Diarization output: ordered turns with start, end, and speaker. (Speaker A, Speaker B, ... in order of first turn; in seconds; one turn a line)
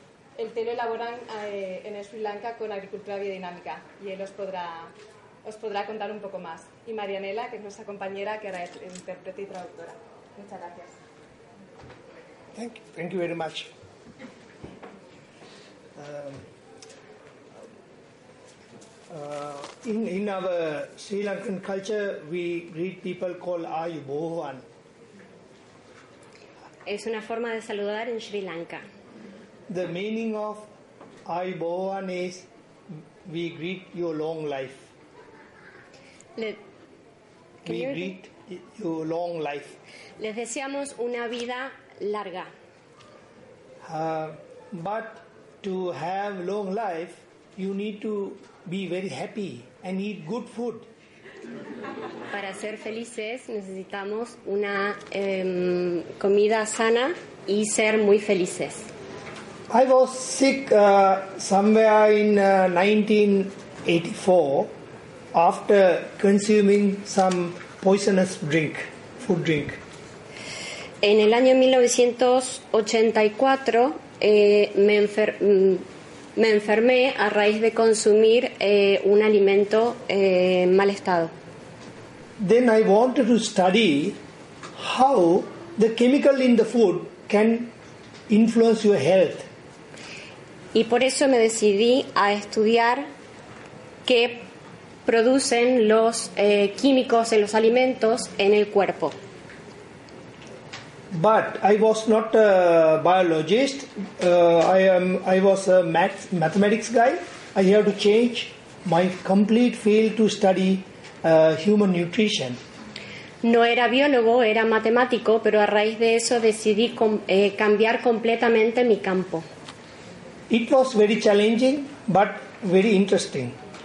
Speaker A: 0.3-4.9
Speaker A: 5.4-11.0
Speaker B: 12.5-13.7
Speaker B: 16.0-16.4
Speaker B: 19.1-24.6
Speaker C: 26.9-28.8
Speaker B: 29.7-30.7
Speaker B: 31.2-32.5
Speaker B: 33.2-34.9
Speaker C: 37.6-38.1
Speaker B: 37.6-39.8
Speaker C: 40.2-42.5
Speaker B: 43.8-50.9
Speaker C: 52.3-58.9
Speaker B: 59.7-64.7
Speaker B: 65.3-69.8
Speaker C: 71.0-75.8
Speaker C: 76.3-81.3
Speaker B: 82.4-84.2
Speaker B: 84.8-87.7
Speaker B: 88.3-89.5
Speaker C: 90.7-93.1
Speaker C: 94.0-94.5
Speaker C: 95.0-99.2
Speaker B: 101.1-112.6
Speaker C: 113.4-119.5
Speaker B: 120.5-123.6